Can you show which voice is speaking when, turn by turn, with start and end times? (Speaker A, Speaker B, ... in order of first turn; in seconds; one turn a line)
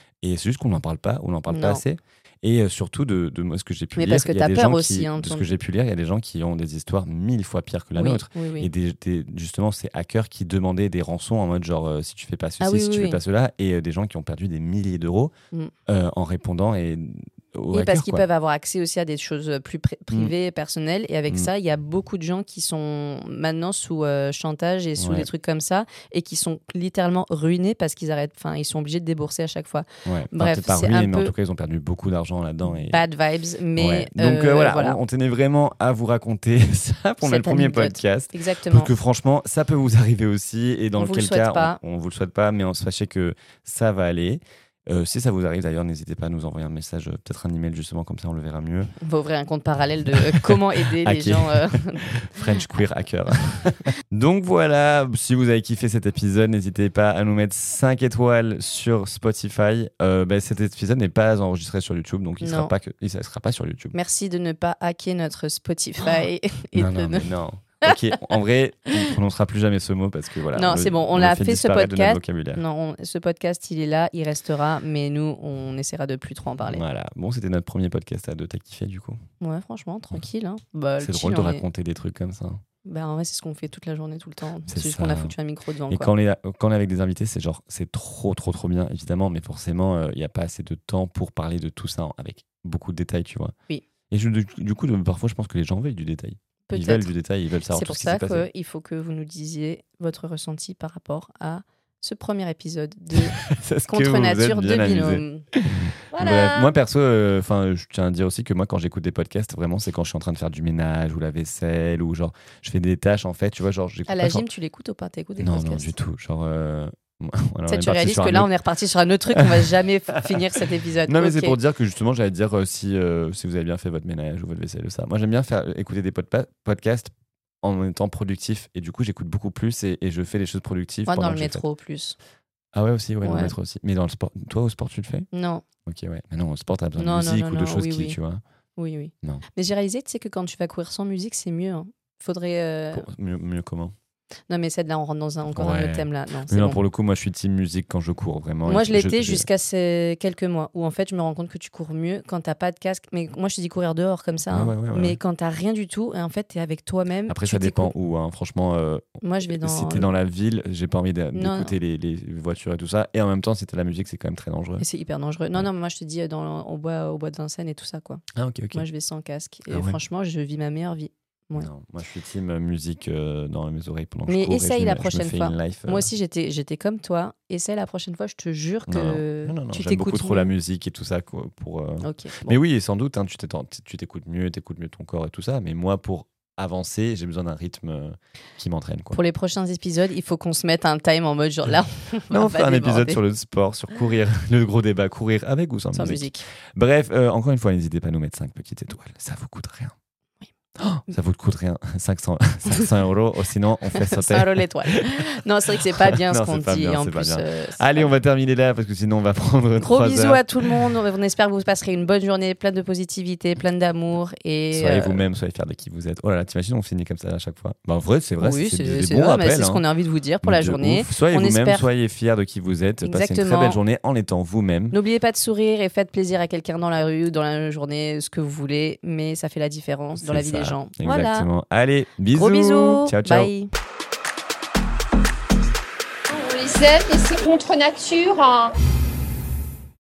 Speaker A: 0.2-15.3
Speaker B: 1.5-1.8
Speaker B: 4.0-5.5
Speaker B: 8.0-8.7
Speaker B: 12.6-13.2
Speaker A: 15.9-18.2
Speaker B: 17.7-31.3
Speaker A: 25.0-25.3
Speaker A: 30.1-33.0
Speaker B: 32.7-35.0
Speaker A: 33.8-48.9
Speaker B: 37.2-38.9
Speaker B: 41.0-41.8
Speaker B: 49.0-52.0
Speaker A: 50.1-63.9
Speaker B: 62.4-62.7
Speaker B: 63.9-67.3
Speaker A: 66.8-72.6
Speaker B: 70.5-76.8
Speaker A: 76.6-79.2
Speaker B: 79.4-81.7
Speaker A: 81.0-82.6
Speaker B: 82.8-86.1
Speaker A: 84.7-85.3
Speaker A: 85.9-93.5
Speaker A: 94.1-98.5
Speaker B: 96.7-97.1
Speaker B: 97.7-105.5
Speaker A: 103.2-114.5
Speaker B: 114.1-116.0
Speaker A: 115.4-118.5
Speaker B: 117.7-121.6
Speaker A: 119.3-119.7
Speaker A: 120.3-131.6
Speaker B: 131.1-132.2
Speaker A: 132.7-135.3
Speaker B: 133.2-133.5
Speaker B: 135.3-135.6
Speaker A: 135.9-138.4
Speaker B: 137.0-138.2
Speaker B: 138.8-143.1
Speaker A: 142.9-143.9
Speaker B: 144.5-146.8
Speaker A: 145.5-149.5
Speaker B: 148.7-157.9
Speaker A: 154.5-155.2
Speaker A: 157.3-164.8
Speaker B: 159.2-160.1
Speaker B: 161.3-161.8
Speaker B: 164.8-171.7
Speaker A: 168.3-168.9
Speaker A: 169.7-170.0
Speaker A: 171.6-176.1
Speaker B: 174.3-180.5
Speaker A: 178.9-189.2
Speaker B: 182.0-182.6
Speaker B: 189.1-193.2
Speaker A: 192.3-199.9
Speaker B: 195.9-196.4
Speaker A: 200.8-205.2
Speaker B: 204.0-208.1
Speaker A: 206.0-210.9
Speaker B: 209.8-215.2
Speaker A: 214.7-219.8
Speaker B: 218.4-221.9
Speaker A: 220.4-225.0
Speaker B: 223.0-223.8
Speaker B: 224.9-231.5
Speaker A: 230.2-233.5
Speaker B: 232.3-233.7
Speaker C: 236.3-238.7